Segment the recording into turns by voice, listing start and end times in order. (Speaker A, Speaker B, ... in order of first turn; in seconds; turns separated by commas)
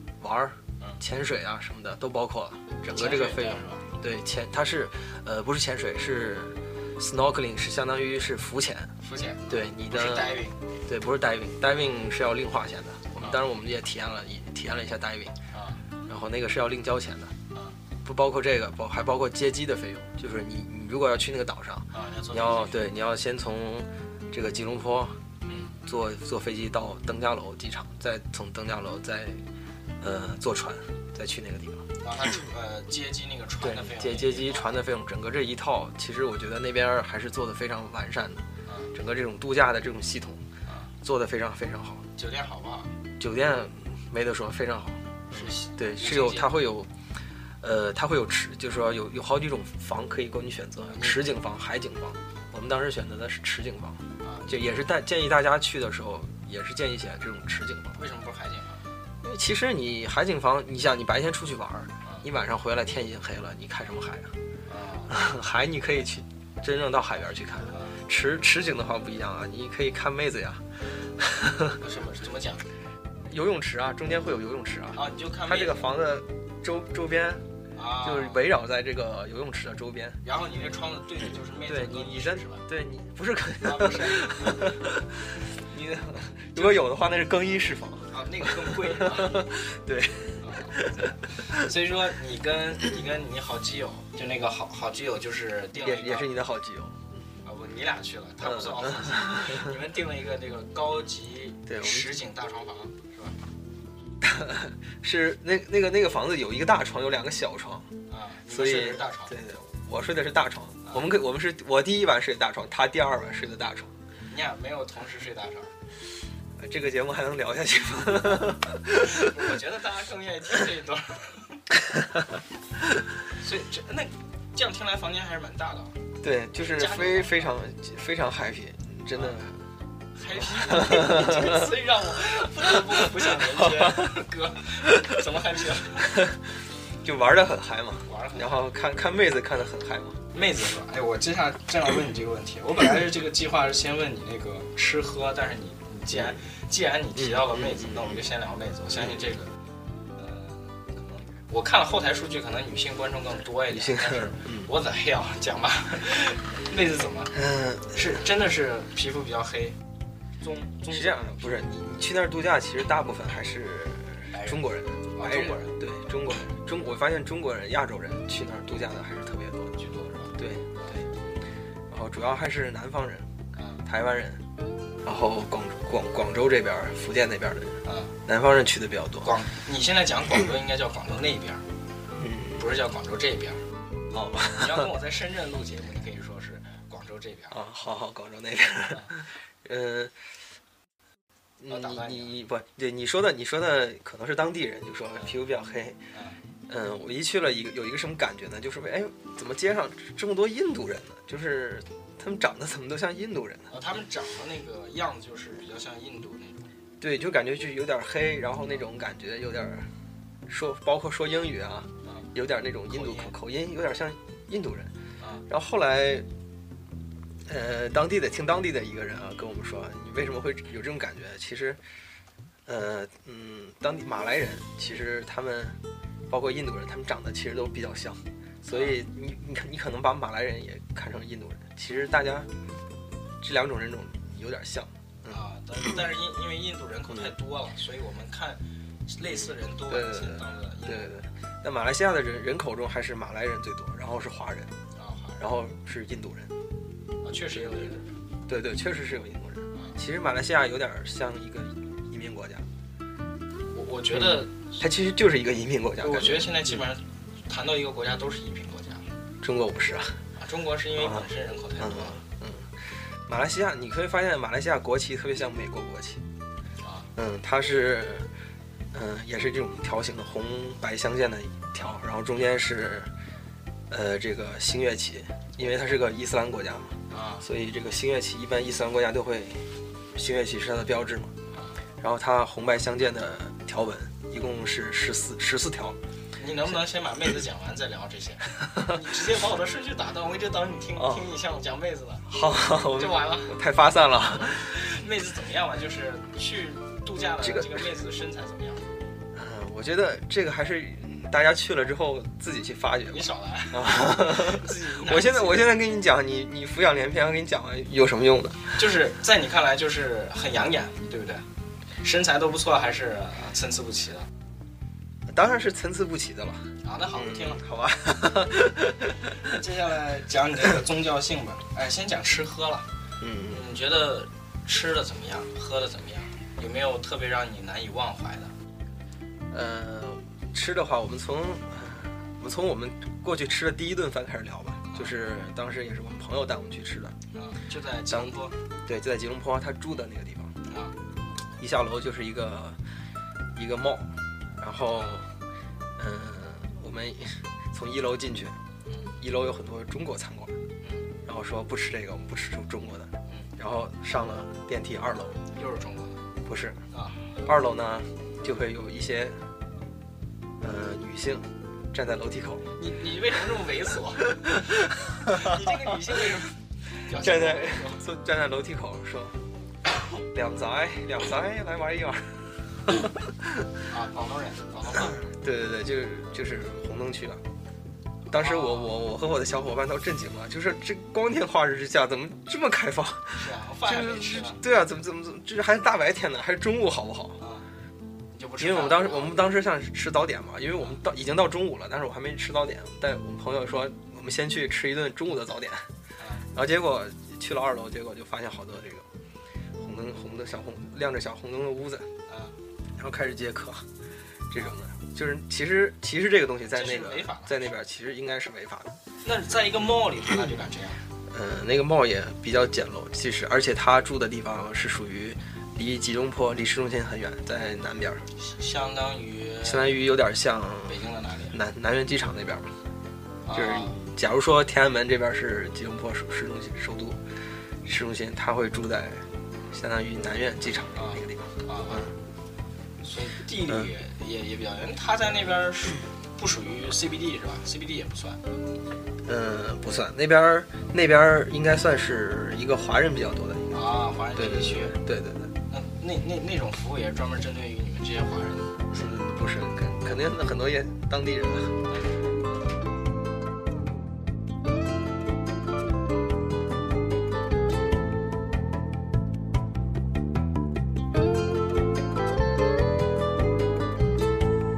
Speaker A: 0.2-8.9, Speaker B: 2.9-3.9, Speaker B: 9.0-10.6, Speaker A: 9.5-15.3, Speaker B: 15.5-15.8, Speaker A: 16.1-17.3, Speaker A: 18.0-25.2, Speaker B: 21.9-22.8, Speaker B: 25.4-25.7, Speaker A: 25.9-29.4, Speaker A: 30.0-31.9, Speaker B: 32.0-34.8, Speaker A: 33.6-40.4, Speaker B: 38.7-38.9, Speaker A: 41.0-42.0, Speaker B: 42.1-43.0, Speaker A: 43.2-46.9, Speaker B: 45.3-46.5, Speaker A: 47.6-58.0, Speaker B: 50.9-51.3, Speaker B: 54.2-54.7, Speaker B: 57.9-58.8, Speaker A: 59.2-64.3, Speaker B: 64.7-65.2, Speaker A: 65.1-70.6, Speaker B: 67.7-67.9, Speaker A: 71.2-71.8, Speaker B: 71.8-72.7, Speaker A: 73.3-77.4, Speaker B: 74.9-75.9, Speaker B: 77.7-78.5, Speaker A: 78.0-80.2, Speaker B: 80.2-82.6, Speaker A: 81.7-91.6, Speaker B: 83.6-84.8, Speaker B: 86.5-86.9, Speaker B: 88.1-89.5, Speaker B: 90.4-96.3, Speaker A: 95.8-97.0, Speaker B: 97.4-103.3, Speaker A: 98.4-99.7, Speaker A: 101.7-102.1, Speaker A: 104.2-107.9, Speaker B: 108.1-109.4, Speaker A: 108.5-113.9, Speaker B: 114.3-115.7, Speaker A: 116.6-119.3, Speaker B: 118.9-121.7, Speaker B: 123.3-126.0, Speaker A: 126.2-129.6, Speaker B: 126.6-127.5, Speaker B: 129.1-129.4, Speaker B: 130.2-136.2, Speaker A: 130.3-131.7, Speaker A: 133.4-134.2, Speaker A: 136.1-136.4, Speaker A: 137.0-140.2, Speaker B: 138.1-138.7, Speaker B: 140.3-149.6, Speaker A: 146.1-146.4, Speaker A: 147.2-148.2, Speaker B: 150.1-157.3, Speaker A: 153.7-154.7, Speaker A: 157.3-158.2, Speaker B: 157.9-159.8, Speaker B: 160.4-161.6, Speaker A: 160.9-169.8, Speaker B: 164.3-165.8, Speaker B: 169.8-171.0, Speaker A: 170.4-171.1, Speaker A: 171.9-173.3, Speaker B: 173.5-173.8, Speaker A: 173.8-174.4, Speaker A: 175.0-179.3, Speaker B: 177.8-178.2, Speaker B: 179.2-181.6, Speaker A: 182.2-182.6, Speaker B: 182.6-183.6, Speaker A: 184.1-184.9, Speaker B: 184.5-187.6, Speaker A: 187.5-190.1, Speaker A: 191.6-196.0, Speaker B: 191.7-192.3, Speaker B: 196.1-196.4, Speaker A: 196.7-203.7, Speaker B: 203.7-206.7, Speaker A: 207.0-209.9, Speaker A: 210.5-214.9, Speaker B: 212.0-212.3, Speaker B: 212.9-213.3, Speaker B: 215.2-215.4, Speaker A: 215.5-216.3, Speaker A: 217.4-221.8, Speaker A: 222.7-225.8, Speaker A: 226.3-232.5, Speaker B: 228.7-229.0, Speaker A: 233.4-235.4, Speaker B: 235.3-241.1, Speaker A: 239.3-244.7, Speaker B: 244.9-245.4, Speaker A: 245.4-246.5, Speaker B: 247.2-248.1, Speaker A: 247.5-252.6, Speaker B: 249.7-250.0, Speaker B: 253.7-254.8, Speaker A: 254.1-256.8, Speaker B: 256.0-259.1, Speaker A: 259.4-260.1, Speaker B: 260.4-262.2, Speaker A: 261.0-261.3, Speaker A: 261.8-262.7, Speaker A: 263.3-266.2, Speaker B: 266.8-267.1, Speaker A: 267.1-268.3, Speaker A: 268.9-273.1, Speaker A: 273.9-279.6, Speaker B: 277.1-277.4, Speaker A: 280.1-281.3, Speaker B: 281.5-281.8, Speaker A: 282.0-286.0, Speaker B: 286.4-292.3, Speaker A: 291.0-291.3, Speaker A: 292.3-294.7, Speaker B: 292.8-293.6, Speaker B: 294.3-298.9, Speaker A: 297.4-297.9, Speaker A: 299.3-308.7, Speaker B: 303.1-305.7, Speaker B: 308.7-311.4, Speaker B: 312.0-314.3, Speaker A: 315.3-319.4, Speaker B: 316.8-317.6, Speaker B: 319.4-322.9, Speaker A: 323.2-323.6, Speaker B: 323.5-328.5, Speaker A: 329.5-337.2, Speaker B: 337.3-338.6, Speaker A: 338.9-340.6, Speaker B: 340.6-340.9, Speaker A: 341.6-342.8, Speaker A: 343.6-345.2, Speaker B: 344.9-345.3, Speaker A: 346.0-348.6, Speaker A: 349.2-350.6, Speaker B: 350.8-351.1, Speaker A: 351.2-355.4, Speaker B: 355.5-356.2, Speaker A: 356.4-356.8, Speaker B: 356.9-357.2, Speaker A: 357.4-359.4, Speaker A: 360.6-362.7, Speaker B: 362.8-364.4, Speaker A: 364.3-365.7, Speaker B: 365.2-368.0, Speaker A: 367.2-369.4, Speaker A: 370.3-373.6, Speaker B: 373.9-375.2, Speaker A: 374.9-377.4, Speaker B: 378.3-378.9, Speaker A: 378.3-387.4, Speaker B: 383.3-384.6, Speaker B: 387.4-387.7, Speaker B: 388.3-389.5, Speaker A: 388.6-395.9, Speaker B: 396.2-396.5, Speaker A: 396.5-399.0, Speaker A: 399.8-402.1, Speaker B: 402.3-402.5, Speaker A: 403.0-403.8, Speaker A: 404.5-409.0, Speaker B: 406.7-407.7, Speaker B: 409.2-411.0, Speaker A: 411.3-418.2, Speaker B: 418.4-420.0, Speaker A: 419.6-422.7, Speaker B: 420.9-421.6, Speaker B: 423.4-424.0, Speaker A: 423.5-427.2, Speaker A: 427.8-432.1, Speaker B: 430.9-432.1, Speaker B: 433.0-438.4, Speaker A: 433.7-433.9, Speaker A: 439.2-443.7, Speaker B: 443.7-445.0, Speaker A: 444.3-445.5, Speaker B: 445.7-448.8, Speaker A: 448.9-451.8, Speaker B: 451.9-452.4